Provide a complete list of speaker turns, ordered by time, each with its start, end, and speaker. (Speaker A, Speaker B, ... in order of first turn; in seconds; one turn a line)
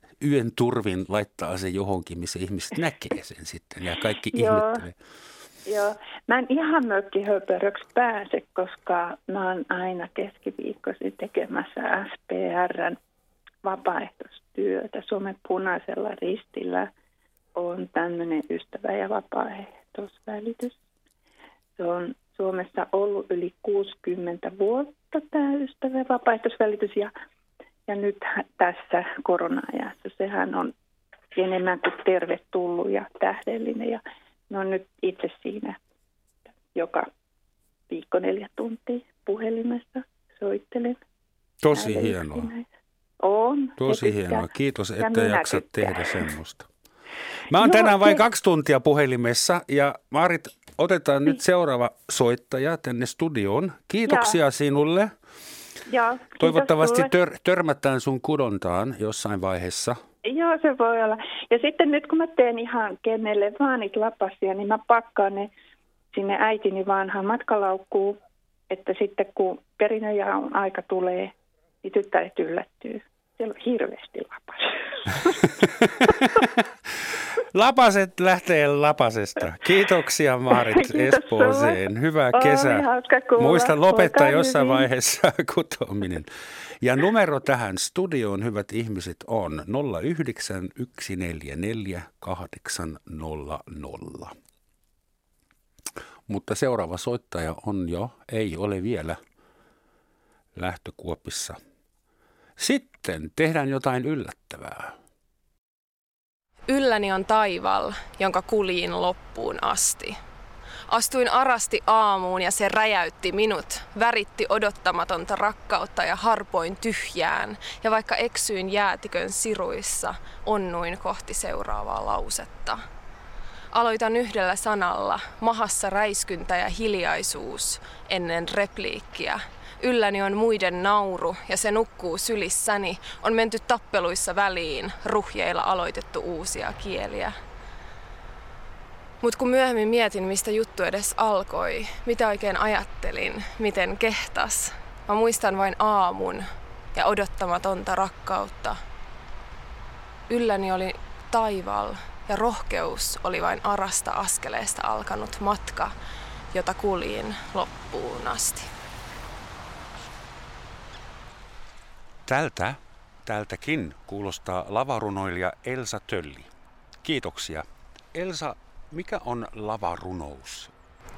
Speaker A: 0.2-5.0
Speaker B: 4.3-4.8
Speaker B: 5.7-13.0
Speaker B: 13.6-16.9
Speaker B: 17.6-20.8
Speaker B: 21.8-27.1
Speaker B: 27.9-30.7
Speaker B: 31.3-35.8
Speaker B: 36.7-37.1
Speaker B: 37.9-41.0
Speaker A: 41.6-42.5
Speaker B: 41.7-42.7
Speaker B: 43.2-46.3
Speaker A: 43.8-46.7
Speaker A: 47.5-55.1
Speaker B: 47.6-48.2
Speaker B: 54.1-54.4
Speaker B: 55.9-57.1
Speaker A: 56.4-60.0
Speaker B: 60.2-65.5
Speaker B: 66.1-68.2
Speaker B: 68.7-71.3
Speaker B: 71.8-75.4
Speaker A: 75.6-76.6
Speaker A: 77.5-86.3
Speaker B: 80.5-81.8
Speaker B: 82.3-84.9
Speaker A: 86.8-94.3
Speaker A: 96.3-99.2
Speaker A: 100.5-101.6
Speaker A: 102.6-105.0
Speaker C: 106.7-110.2
Speaker C: 110.9-122.8
Speaker C: 123.7-137.4
Speaker C: 139.2-148.8
Speaker C: 150.3-155.9
Speaker C: 156.5-158.7
Speaker A: 162.3-166.5
Speaker A: 167.0-170.7